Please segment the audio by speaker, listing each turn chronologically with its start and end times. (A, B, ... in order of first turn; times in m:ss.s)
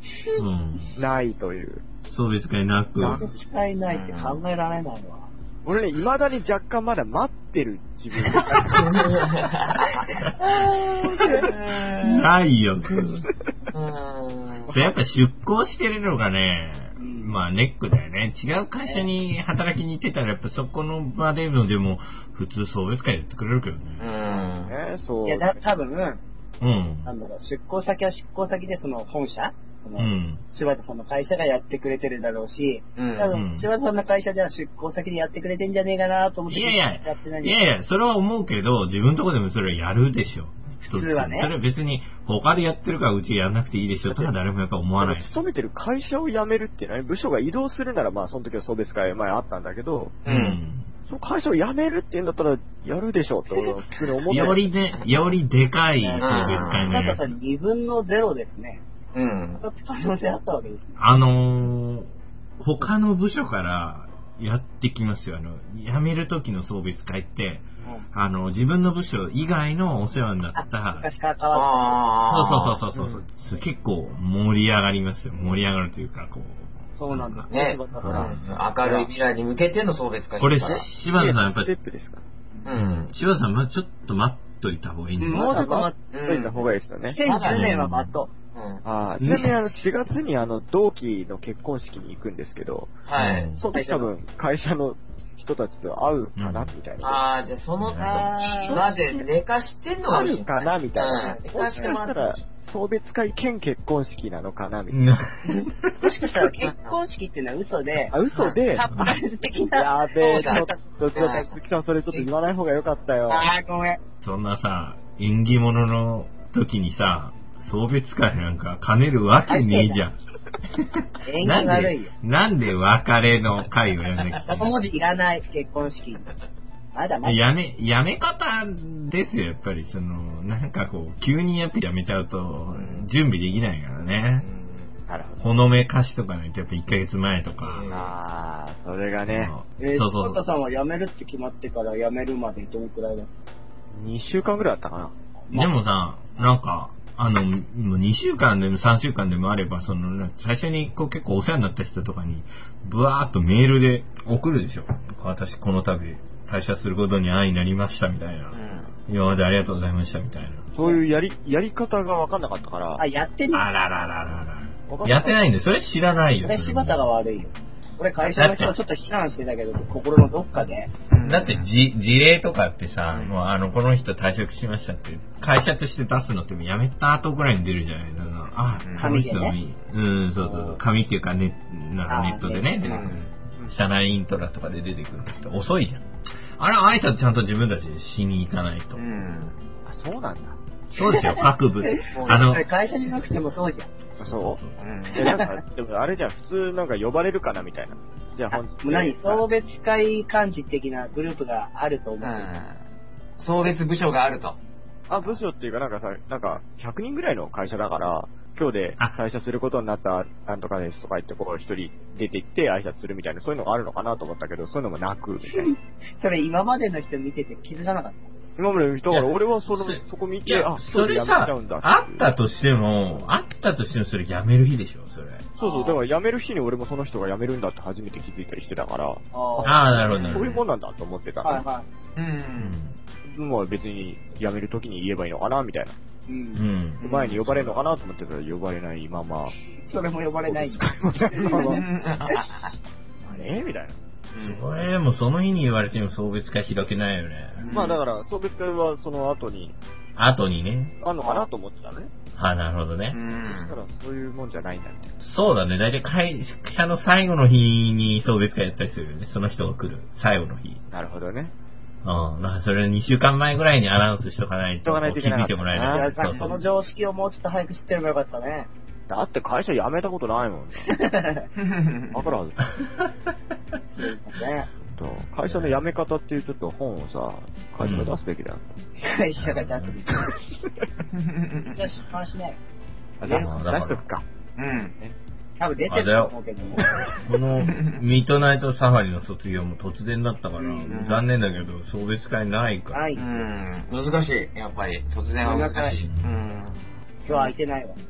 0:00.4-0:01.0 A
0:01.0-0:01.8 B
0:02.0-0:03.2 A
0:03.0-0:03.2 B
0:03.0-0:05.3 C
0:03.8-0:04.4 D
0:05.6-0:09.0 B
0:08.3-0:09.0 A
0:08.6-0:10.0 D
0:10.4-0:11.4 C
0:11.1-0:12.3 D
0:11.2-0:11.4 A
0:12.0-0:13.3 A
0:13.7-0:14.8 D
0:14.7-0:24.1 A
0:17.0-0:17.4 C
0:18.8-0:19.1 C
0:24.0-0:24.7 D
0:24.6-0:25.6 B
0:25.2-0:26.2 C
0:26.6-0:27.1 A
0:27.0-0:37.6 C
0:30.0-0:30.4 A
0:33.0-0:33.3 D
0:33.3-0:33.7 A
0:36.5-0:45.3 A
0:40.8-0:41.5 C
0:44.0-0:44.3 B
0:45.0-0:50.2 B
0:50.2-0:50.6 D
0:50.2-0:50.9 A
0:51.1-0:54.7 B
0:54.3-0:57.3 A
0:56.0-0:58.8 C
0:56.2-0:56.9 D
0:59.1-0:59.6 D
0:59.6-1:01.0 C
1:01.0-1:11.1 A
1:10.5-1:12.0 C
1:11.5-1:12.8 D
1:12.3-1:17.5 A
1:17.0-1:18.2 C
1:17.5-1:20.9 D
1:17.5-1:18.3 B
1:18.0-1:18.3 A
1:18.8-1:19.1 C
1:20.4-1:21.7 A
1:20.6-1:22.2 B
1:22.6-1:23.1 D
1:22.8-1:25.6 A
1:25.2-1:26.0 C
1:25.3-1:27.2 B
1:26.1-1:27.7 D
1:27.1-1:28.3 C
1:27.5-1:28.2 A
1:28.5-1:28.8 D
1:28.8-1:33.0 B
1:29.2-1:29.5 A
1:33.1-1:33.5 D
1:33.2-1:33.6 A
1:33.6-1:37.2 B
1:33.7-1:34.1 C
1:36.4-1:36.7 A
1:37.0-1:42.4 D
1:37.8-1:38.3 A
1:38.0-1:39.1 C
1:38.6-1:39.3 B
1:40.1-1:45.2 B
1:41.2-1:42.0 C
1:44.9-1:46.0 A
1:46.0-1:48.1 C
1:48.1-1:49.2 B
1:48.7-1:51.4 C
1:49.7-1:53.5 B
1:50.2-1:51.5 D
1:53.3-1:54.0 C
1:54.2-2:00.2 A
1:59.5-2:00.0 C
2:00.7-2:04.7 A
2:01.2-2:02.1 C
2:04.5-2:06.2 C
2:06.9-2:07.4 C
2:07.2-2:14.4 A
2:12.7-2:13.1 D
2:14.4-2:14.9 D
2:15.1-2:15.4 B
2:15.4-2:17.9 A
2:17.6-2:18.2 D
2:17.9-2:19.5 B
2:19.3-2:20.4 A
2:19.8-2:23.3 C
2:23.9-2:25.1 B
2:25.5-2:40.7 A
2:38.5-2:38.9 D
2:40.7-2:43.0 B
2:43.0-2:43.7 C
2:43.5-2:47.1 A
2:44.9-2:45.4 B
2:46.4-2:50.9 C
2:48.2-2:48.8 A
2:51.1-2:51.7 D
2:51.2-3:06.0 A
2:53.1-2:53.4 D
2:58.8-2:59.1 D
2:59.0-2:59.6 C
3:00.4-3:00.8 B
3:02.1-3:03.1 C
3:02.8-3:03.3 D
3:06.6-3:09.0 A
3:08.9-3:09.6 D
3:09.8-3:10.6 B
3:10.9-3:12.7 A
3:11.4-3:13.9 C
3:12.1-3:12.4 D
3:14.2-3:14.6 B
3:14.2-3:14.8 A
3:14.8-3:15.4 D
3:15.1-3:19.4 B
3:18.8-3:22.5 C
3:22.2-3:22.8 D
3:23.4-3:24.6 D
3:25.1-3:35.7 B
3:35.5-3:38.3 C
3:38.6-3:42.3 B
3:39.1-3:45.5 A
3:45.6-3:51.6 B
3:45.6-3:46.0 D
3:49.3-3:49.8 C
3:49.6-3:50.6 A
3:50.1-3:50.6 D
3:51.4-3:51.8 C
3:52.2-3:52.8 D
3:52.6-3:53.0 A
3:53.2-3:56.0 B
3:56.3-3:56.6 C
3:56.5-3:57.9 A
3:57.0-3:57.5 D
3:57.0-3:59.5 B
3:59.7-4:02.5 C
4:00.4-4:01.8 B
4:01.4-4:02.7 D
4:03.2-4:04.0 B
4:04.3-4:04.6 D
4:04.4-4:07.7 A
4:07.6-4:08.0 D
4:07.7-4:09.8 B
4:10.2-4:11.0 A
4:11.0-4:12.1 B
4:12.3-4:13.2 A
4:13.1-4:13.8 D
4:13.4-4:15.1 B
4:15.2-4:20.8 A
4:20.9-4:21.5 B
4:22.0-4:26.6 A
4:24.8-4:26.6 B
4:25.9-4:28.7 C
4:29.1-4:30.9 B
4:30.8-4:31.5 C
4:31.6-4:32.2 D
4:32.1-4:32.6 B
4:33.9-4:34.7 C
4:34.9-4:38.8 B
4:35.4-4:35.8 A
4:37.8-4:38.2 A
4:39.0-4:40.3 C
4:39.4-4:40.0 A
4:41.1-4:41.8 D
4:41.7-4:42.6 C
4:43.2-4:44.2 B
4:43.2-4:43.5 C
4:43.3-4:44.0 A
4:44.6-4:44.9 D
4:45.6-4:46.9 C
4:45.9-4:53.1 A
4:47.6-4:47.9 D
4:50.6-4:50.9 C
4:50.9-4:51.3 D
4:52.9-4:53.5 C
4:53.1-4:57.5 D
4:55.4-4:56.0 C
4:56.0-4:56.4 A
4:57.2-4:58.0 C